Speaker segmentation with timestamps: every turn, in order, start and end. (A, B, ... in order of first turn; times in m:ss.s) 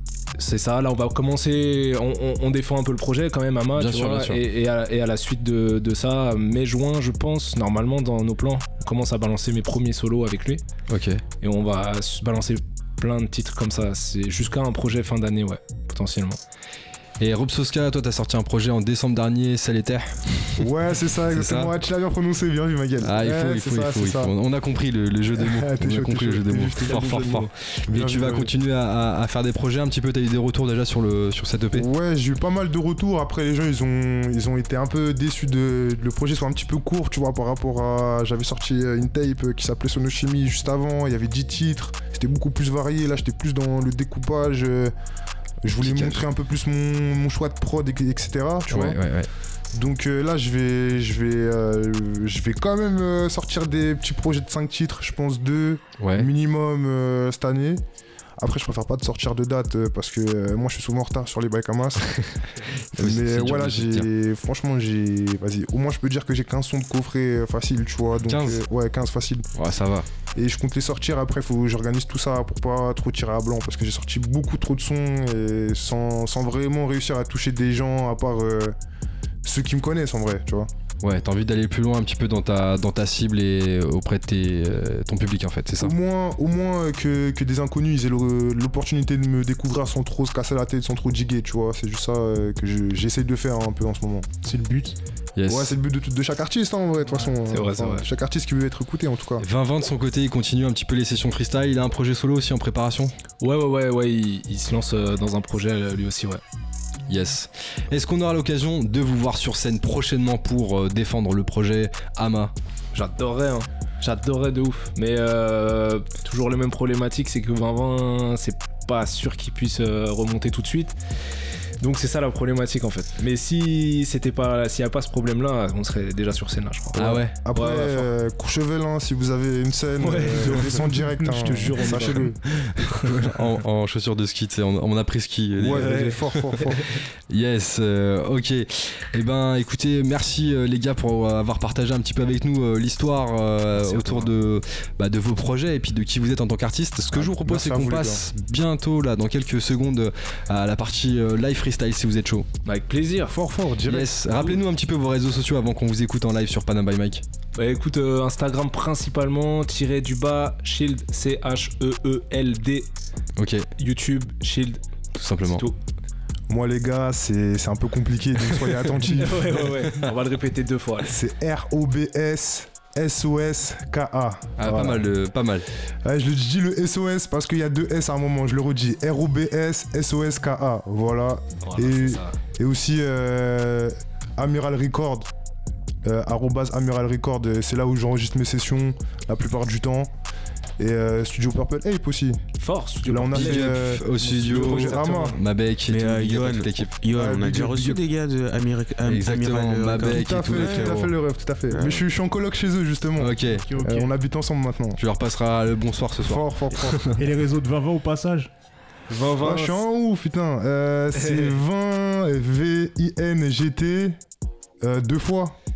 0:00.4-0:10.6 A
0:03.8-0:04.4 B
0:10.9-0:11.2 B
0:11.4-0:16.4 A
0:17.2-0:20.7 B
0:20.6-0:24.3 C
0:21.3-0:21.7 B
0:23.0-0:31.9 B
0:25.3-0:28.5 C
0:31.7-0:44.9 C
0:45.6-0:49.0 C
0:45.8-0:46.2 B
0:48.7-0:49.3 B
0:49.7-0:57.8 C
0:56.0-0:56.3 B
0:58.4-1:02.2 C
1:03.0-1:04.1 B
1:03.0-1:09.5 C
1:08.3-1:08.6 B
1:09.5-1:10.1 B
1:10.4-1:18.8 C
1:19.4-1:20.7 C
1:21.0-1:25.9 B
1:25.8-1:34.3 C
1:34.4-1:35.0 D
1:35.4-1:35.7 B
1:35.5-1:39.4 C
1:37.3-1:38.1 A
1:39.4-1:43.1 B
1:43.4-1:46.4 A
1:47.1-1:52.5 B
1:52.9-2:01.0 A
2:01.8-2:08.1 A
2:07.0-2:07.3 B
2:07.0-2:12.4 C
2:10.0-2:13.3 A
2:12.9-2:16.6 B
2:15.6-2:16.8 C
2:15.8-2:16.7 A
2:17.3-2:32.5 B
2:23.7-2:24.3 A
2:27.1-2:28.2 C
2:32.6-2:33.4 A
2:33.3-2:34.1 C
2:33.8-2:37.2 B
2:37.6-2:42.9 A
2:43.4-2:43.7 B
2:43.8-2:44.8 A
2:45.2-2:45.6 B
2:45.4-2:45.8 A
2:46.5-2:49.7 C
2:48.7-2:51.1 A
2:51.0-2:55.1 C
2:54.6-2:55.7 B
2:56.0-3:05.3 C
3:01.6-3:02.4 A
3:06.0-3:10.1 C
3:10.8-3:12.4 C
3:12.6-3:15.4 A
3:13.0-3:15.4 C
3:13.3-3:17.1 B
3:15.9-3:21.0 E
3:17.1-3:18.0 C
3:19.0-3:21.1 B
3:20.0-3:25.0 C
3:21.7-3:22.0 E
3:23.2-3:23.7 B
3:23.4-3:24.1 D
3:25.0-3:27.2 B
3:26.2-3:27.2 C
3:27.2-3:28.5 D
3:29.1-3:29.8 A
3:29.4-3:34.2 C
3:31.1-3:31.6 A
3:34.8-3:35.6 C